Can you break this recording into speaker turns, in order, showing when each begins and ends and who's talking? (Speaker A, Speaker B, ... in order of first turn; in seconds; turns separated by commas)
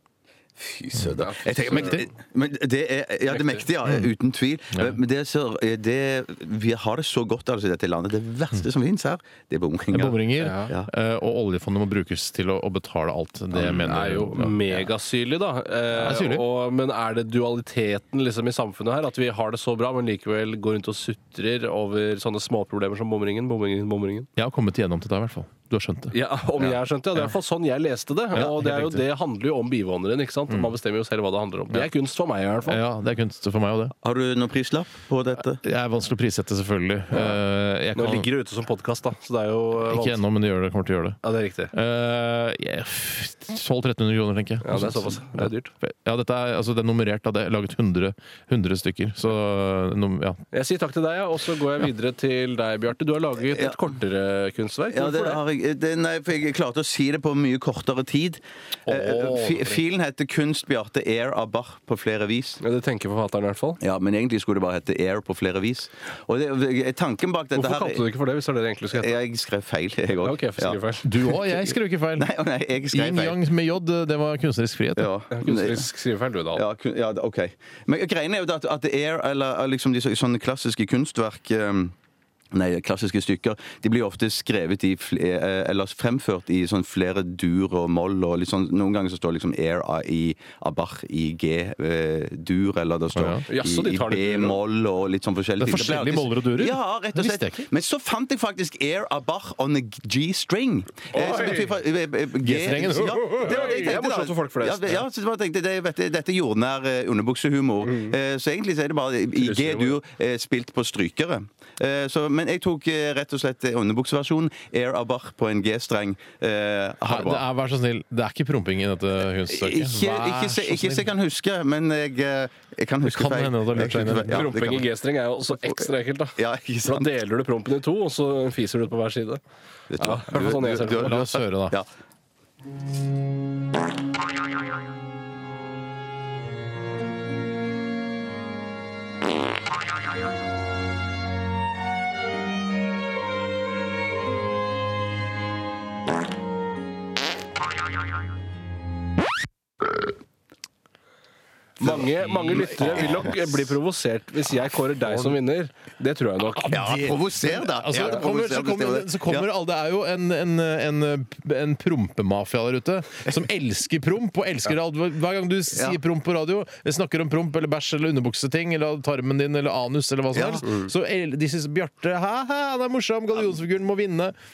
Speaker A: 0.6-10.2, Speaker B: 1.2-2.0, Speaker C: 1.7-2.0, Speaker B: 3.3-3.6, Speaker C: 9.9-14.8, Speaker B: 10.4-10.7, Speaker B: 13.5-24.3, Speaker C: 15.9-16.4, Speaker C: 24.4-26.1, Speaker B: 26.1-32.8, Speaker C: 28.4-29.0, Speaker C: 32.7-33.9, Speaker A: 34.0-35.6, Speaker C: 35.5-38.3, Speaker B: 37.1-37.4, Speaker B: 38.0-40.2, Speaker C: 39.9-41.2, Speaker B: 41.2-41.7, Speaker C: 41.7-50.4, Speaker B: 44.6-45.7, Speaker B: 50.5-55.4, Speaker A: 53.5-53.8, Speaker A: 54.9-62.6, Speaker C: 58.9-59.8, Speaker B: 62.6-63.8, Speaker A: 63.8-68.0, Speaker B: 67.5-69.2, Speaker A: 68.9-70.8, Speaker B: 70.1-71.1, Speaker C: 71.0-72.3, Speaker A: 72.2-73.4, Speaker C: 72.9-75.1, Speaker A: 75.0-75.9, Speaker B: 75.3-76.6, Speaker A: 76.5-81.9, Speaker A: 82.5-117.4, Speaker C: 93.2-93.4, Speaker B: 93.5-94.6, Speaker C: 95.6-97.6, Speaker B: 101.1-101.7, Speaker C: 102.4-103.9, Speaker B: 102.9-105.0, Speaker B: 109.4-110.0, Speaker C: 117.1-121.1, Speaker A: 119.5-124.9, Speaker C: 123.0-124.5, Speaker B: 124.3-129.4, Speaker A: 125.6-127.1, Speaker A: 129.9-131.9, Speaker B: 130.0-131.3, Speaker C: 131.1-131.8, Speaker B: 151.8-156.8, Speaker A: 151.8-153.2, Speaker A: 156.7-159.5, Speaker C: 156.7-174.3, Speaker A: 165.7-166.0, Speaker A: 170.3-170.9